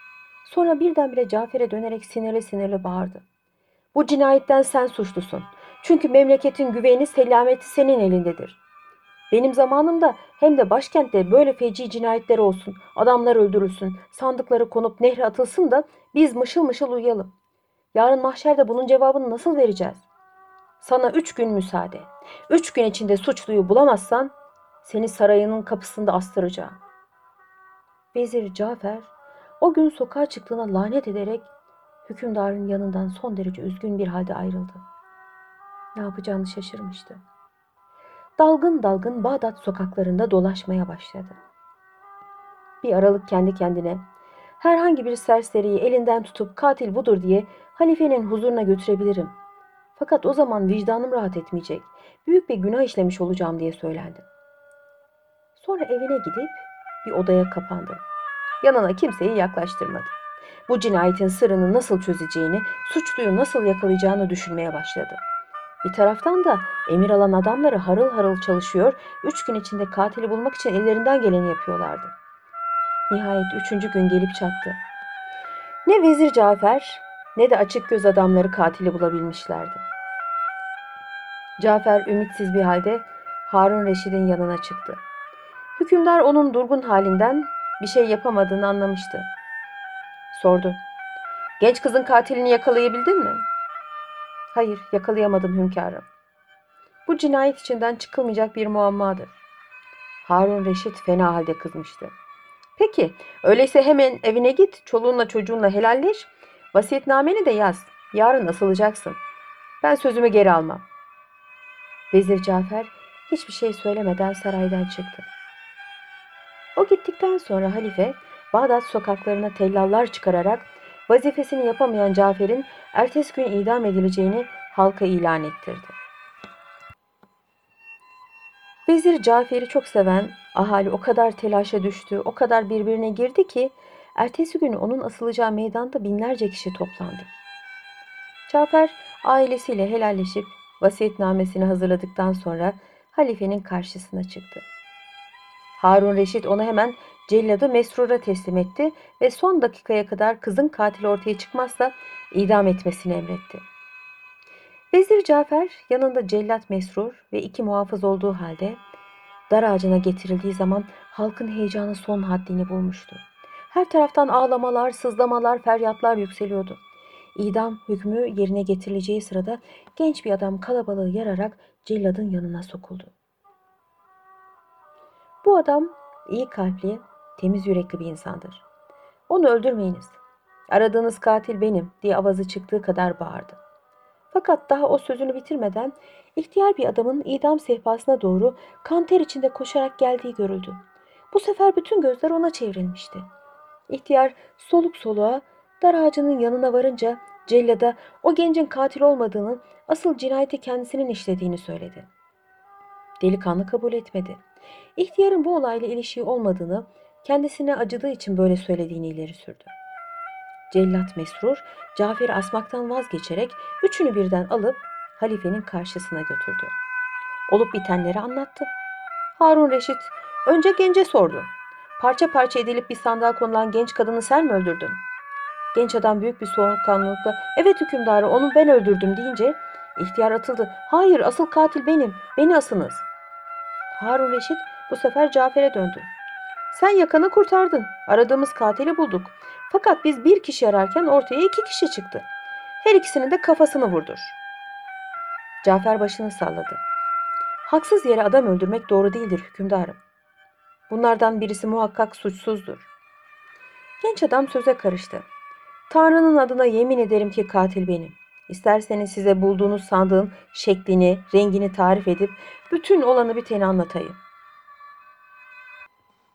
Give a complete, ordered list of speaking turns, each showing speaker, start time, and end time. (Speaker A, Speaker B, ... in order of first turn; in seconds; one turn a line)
Speaker A: 0.4-3.2
Speaker A: 3.9-8.6
Speaker A: 9.3-17.3
Speaker A: 17.9-20.0
Speaker A: 20.8-24.3
Speaker A: 24.8-26.8
Speaker A: 28.1-31.5
Speaker A: 32.1-34.8
Speaker A: 35.9-37.2
Speaker A: 38.4-41.4
Speaker A: 42.8-44.0
Speaker A: 44.6-49.3
Speaker A: 50.0-54.2
Speaker A: 55.6-58.0
Speaker A: 58.6-60.1
Speaker A: 60.7-65.2
Speaker A: 65.8-72.1
Speaker A: 73.1-74.8
Speaker A: 75.8-79.8
Speaker A: 81.6-85.0
Speaker A: 85.8-89.3
Speaker A: 90.3-90.8
Speaker A: 91.6-93.4
Speaker A: 94.5-96.1
Speaker A: 97.1-99.3
Speaker A: 100.2-102.1
Speaker A: 102.8-109.2
Speaker A: 109.8-110.8
Speaker A: 112.1-115.3
Speaker A: 116.8-126.0
Speaker A: 128.9-137.3
Speaker A: 138.5-144.6
Speaker A: 145.8-153.6
Speaker A: 154.9-158.8
Speaker A: 159.5-166.8
Speaker A: 167.3-173.1
Speaker A: 175.4-178.7
Speaker A: 179.3-180.2
Speaker A: 180.7-183.6
Speaker A: 184.3-190.8
Speaker A: 191.3-193.2
Speaker A: 193.9-202.1
Speaker A: 203.2-204.4
Speaker A: 204.9-209.7
Speaker A: 210.7-216.7
Speaker A: 217.5-218.7
Speaker A: 219.4-225.0
Speaker A: 225.7-233.1
Speaker A: 233.9-236.1
Speaker A: 236.7-242.3
Speaker A: 242.8-244.4
Speaker A: 245.6-246.8
Speaker A: 247.7-250.0
Speaker A: 250.9-252.9
Speaker A: 254.0-255.2
Speaker A: 255.9-264.2